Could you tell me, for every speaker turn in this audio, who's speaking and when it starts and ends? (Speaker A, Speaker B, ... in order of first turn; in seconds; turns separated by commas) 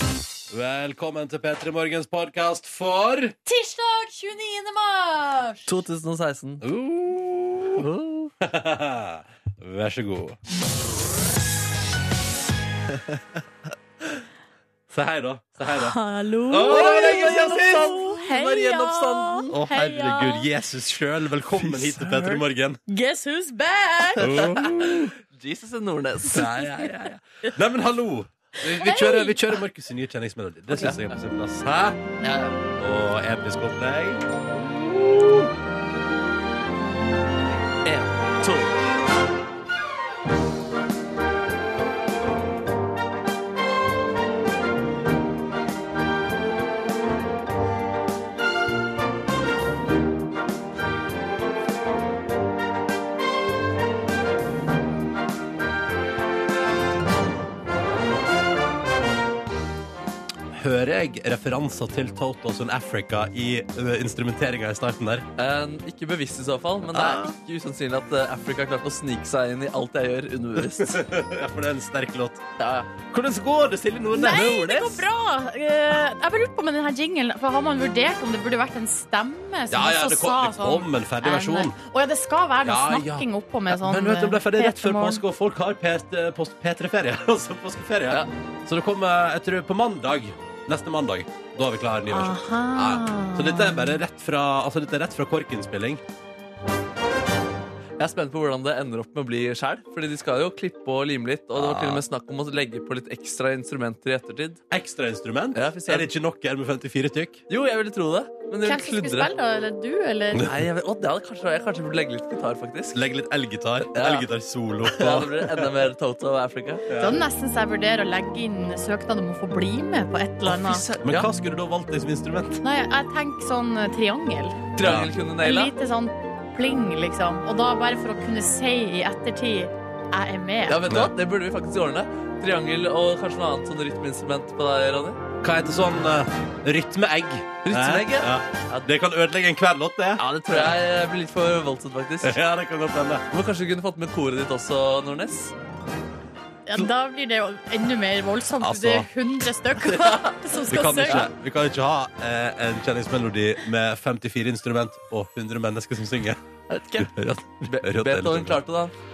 Speaker A: 0.5-3.3, Speaker B: 3.5-5.7, Speaker C: 5.7-6.6, Speaker A: 6.6-7.8, Speaker C: 7.8-8.3, Speaker A: 8.4-10.4, Speaker A: 14.9-16.0, Speaker B: 15.7-20.4, Speaker A: 16.5-18.0, Speaker C: 16.6-19.6, Speaker A: 19.5-22.8, Speaker C: 21.6-22.4, Speaker B: 22.9-24.4, Speaker A: 24.2-25.1, Speaker C: 24.9-26.5, Speaker A: 26.2-32.0, Speaker B: 28.6-29.4, Speaker C: 30.8-31.0, Speaker C: 32.2-32.6, Speaker A: 32.8-34.3, Speaker A: 35.0-35.3, Speaker C: 37.8-38.7, Speaker A: 60.5-65.2, Speaker C: 65.4-71.0, Speaker A: 66.9-67.3, Speaker A: 70.6-72.4, Speaker C: 72.6-72.9, Speaker A: 73.1-75.0, Speaker B: 74.1-85.2, Speaker A: 79.7-81.7, Speaker A: 82.6-96.0, Speaker B: 92.1-94.0, Speaker C: 98.0-104.6, Speaker A: 101.5-102.0, Speaker A: 104.7-107.4, Speaker C: 105.5-106.1, Speaker C: 107.5-109.3, Speaker B: 108.6-110.4, Speaker C: 110.4-113.0, Speaker A: 112.9-115.7, Speaker C: 113.9-114.2, Speaker C: 114.9-116.8, Speaker A: 116.9-117.2, Speaker B: 117.0-120.8, Speaker C: 120.5-121.3, Speaker A: 121.0-122.6, Speaker B: 122.6-124.6, Speaker C: 124.8-125.7, Speaker A: 124.8-125.1, Speaker B: 125.4-130.8, Speaker C: 130.7-135.2, Speaker A: 130.8-131.1, Speaker A: 135.4-140.8, Speaker C: 137.6-138.9, Speaker C: 140.2-142.4, Speaker A: 142.2-143.2, Speaker C: 143.3-145.5, Speaker B: 146.7-151.2, Speaker A: 148.6-149.1, Speaker A: 150.7-156.4, Speaker C: 150.7-151.3, Speaker B: 156.7-157.1, Speaker A: 157.0-158.6, Speaker C: 157.7-158.9